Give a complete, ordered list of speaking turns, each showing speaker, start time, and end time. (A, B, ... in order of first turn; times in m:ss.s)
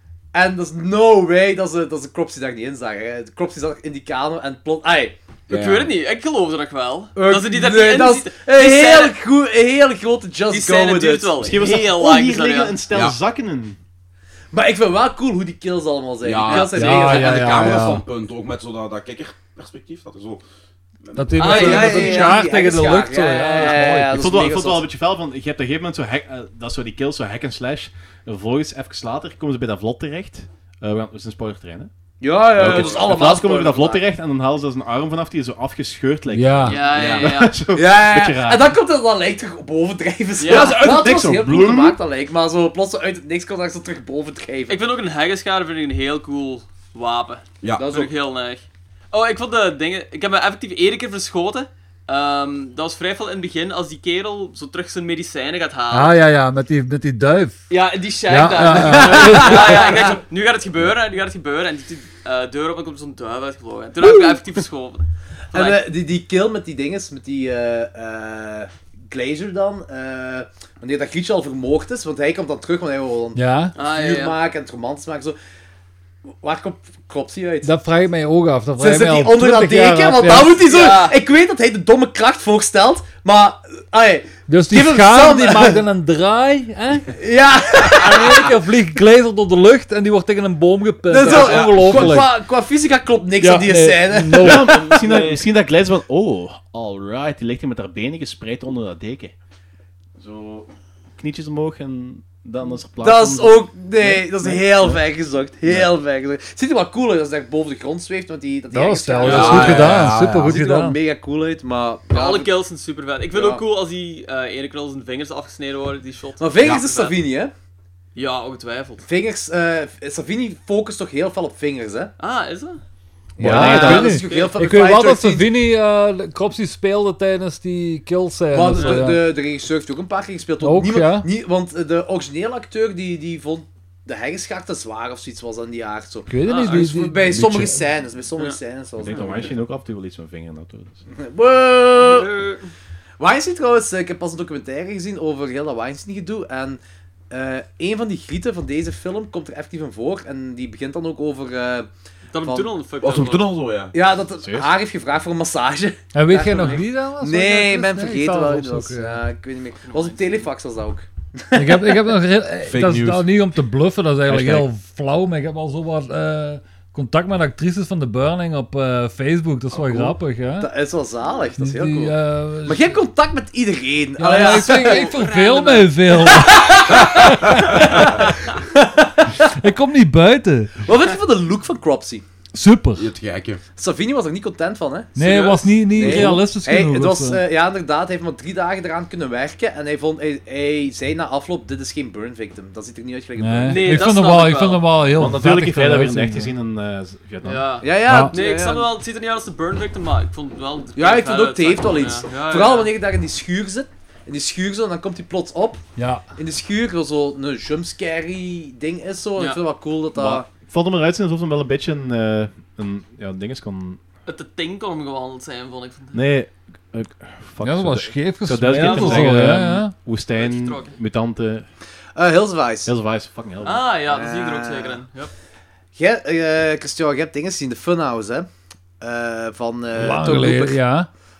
0:00.3-0:05.2 A
0:05.5-0:05.9 B
0:05.5-0:09.2 C
0:07.2-0:11.6 A
0:10.5-0:12.8 C
0:11.4-0:13.8 D
0:12.9-0:13.2 B
0:14.5-0:18.0 A
0:16.2-0:20.4 B
0:16.7-0:18.0 E
0:21.0-0:21.8 B
0:21.2-0:24.2 E
0:21.4-0:22.4 C
0:21.4-0:24.9 A
0:24.1-0:31.9 D
0:32.2-0:34.0 A
0:32.5-0:38.8 D
0:32.6-0:33.0 B
0:36.3-0:36.8 E
0:36.7-0:37.6 C
0:36.8-0:37.3 B
0:37.7-0:44.8 A
0:40.4-0:40.8 C
0:40.4-0:42.0 D
0:44.7-0:56.2 C
0:47.8-0:48.1 A
0:55.9-0:57.6 E
0:57.7-1:05.8 C
0:58.3-0:59.9 E
0:58.7-1:00.2 A
1:05.5-1:15.4 A
1:13.4-1:13.8 E
1:13.8-1:14.4 C
1:16.4-1:17.7 A
1:17.6-1:20.6 E
1:18.8-1:25.8 A
1:20.6-1:21.2 C
1:24.5-1:27.2 E
1:27.1-1:28.6 A
1:27.9-1:32.3 E
1:31.1-1:34.8 A
1:31.2-1:32.3 B
1:33.4-1:35.0 E
1:34.4-1:39.3 D
1:35.0-1:35.4 B
1:40.2-1:40.7 B
1:41.2-1:45.0 D
1:43.0-1:52.5 A
1:45.6-1:45.9 D
1:48.7-1:51.0 E
1:49.2-1:49.9 C
1:49.2-1:50.6 B
1:52.1-1:57.2 C
1:53.3-1:53.6 A
1:56.4-1:57.5 A
1:58.2-1:59.0 C
1:59.0-2:02.1 A
2:02.2-2:02.8 C
2:03.4-2:05.5 A
2:03.4-2:04.2 D
2:03.4-2:09.2 E
2:04.0-2:04.5 C
2:08.5-2:19.5 A
2:08.7-2:09.0 C
2:10.6-2:11.3 E
2:16.3-2:17.6 E
2:16.4-2:16.8 C
2:17.3-2:17.8 B
2:19.0-2:21.0 D
2:19.1-2:19.4 C
2:21.1-2:22.4 A
2:22.0-2:22.7 C
2:23.2-2:31.9 A
2:32.3-2:33.5 C
2:32.4-2:32.7 A
2:33.0-2:34.0 B
2:33.9-2:42.0 A
2:34.4-2:34.7 D
2:36.1-2:39.2 E
2:36.5-2:36.8 C
2:39.8-2:40.5 C
2:41.6-2:50.7 E
2:42.7-2:43.3 B
2:44.3-2:44.7 B
2:49.7-2:55.2 A
2:51.6-2:53.0 E
2:54.2-2:58.3 E
2:54.4-2:56.5 C
2:56.3-2:59.4 A
2:57.6-2:58.0 B
2:59.4-3:00.7 E
3:00.8-3:02.2 A
3:02.5-3:03.1 E
3:03.0-3:03.6 B
3:03.8-3:05.1 A
3:05.2-3:07.4 E
3:05.2-3:05.8 C
3:05.9-3:14.1 A
3:13.4-3:16.5 E
3:13.7-3:14.9 C
3:15.1-3:17.8 D
3:17.5-3:22.9 C
3:17.8-3:18.9 A
3:18.0-3:18.4 E
3:21.0-3:25.8 A
3:26.0-3:26.2 E
3:26.4-3:30.5 A
3:30.2-3:34.0 D
3:34.3-3:36.3 C
3:36.1-3:41.7 D
3:37.6-3:40.0 E
3:38.7-3:39.4 C
3:40.4-3:41.0 C
3:42.2-3:42.9 A
3:42.8-3:43.9 D
3:43.6-3:45.3 C
3:44.1-3:45.0 A
3:46.0-3:48.5 A
3:49.0-3:50.8 A
3:50.0-3:51.1 E